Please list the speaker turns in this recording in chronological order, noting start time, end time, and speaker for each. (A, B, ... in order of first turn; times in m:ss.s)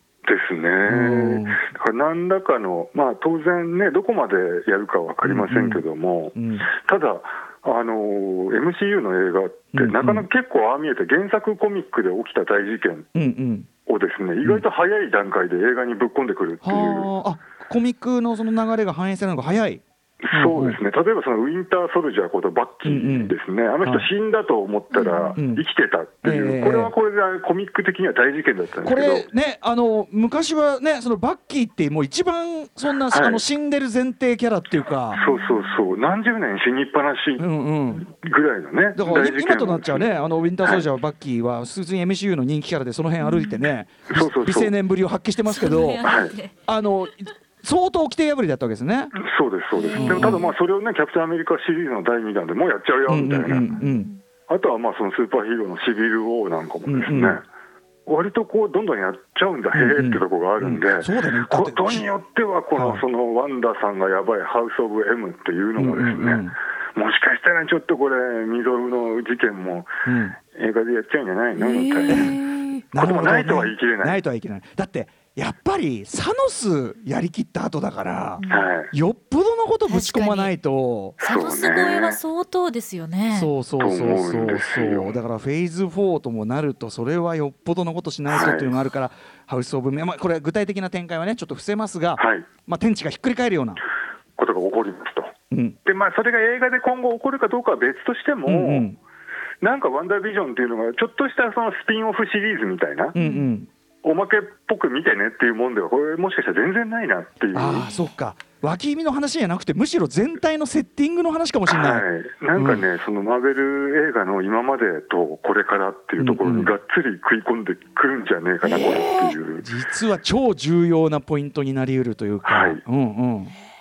0:00.2-0:13.1 A
0:00.9-0:01.6 B
0:05.2-0:05.8 B
0:06.4-0:06.7 B
0:09.7-0:10.3 B
0:13.2-0:13.7 B
0:13.9-0:17.1 A
0:16.6-0:20.8 B
0:20.2-0:29.3 A
0:22.8-0:24.1 B
0:24.9-0:25.4 C
0:25.4-0:25.6 B
0:26.2-0:26.9 B
0:28.8-0:35.2 B
0:33.1-0:33.4 A
0:35.2-0:35.8 C
0:35.2-0:37.5 A
0:37.4-0:38.1 B
0:38.0-0:40.9 A
0:39.0-0:46.2 B
0:43.2-0:43.7 C
0:44.1-0:44.7 A
0:45.5-0:46.5 C
0:46.0-0:46.3 A
0:46.7-0:49.2 B
0:49.2-0:53.7 A
0:49.7-0:50.5 C
0:50.0-0:50.4 B
0:53.1-0:54.1 B
0:53.6-0:54.2 C
0:54.5-0:57.4 A
0:56.9-0:57.4 B
0:58.1-1:09.9 A
0:59.7-1:02.1 B
1:02.8-1:03.0 B
1:05.8-1:06.5 B
1:10.1-1:10.4 B
1:10.5-1:12.4 A
1:11.6-1:12.8 C
1:12.1-1:21.2 B
1:13.0-1:14.2 A
1:18.4-1:18.7 C
1:18.5-1:18.9 A
1:19.9-1:20.5 C
1:21.2-1:23.5 C
1:21.2-1:22.2 A
1:23.3-1:33.8 B
1:23.8-1:25.2 A
1:28.3-1:28.8 A
1:32.2-1:32.5 A
1:34.4-1:35.3 A
1:35.5-1:35.8 B
1:35.8-1:38.9 A
1:38.5-1:39.0 B
1:39.6-1:43.2 A
1:43.1-1:43.7 B
1:43.2-1:43.5 C
1:44.0-1:47.9 A
1:47.5-1:52.9 B
1:51.7-1:59.7 A
1:56.2-1:56.8 B
1:58.6-1:59.4 C
1:58.7-2:03.5 B
2:02.4-2:02.8 A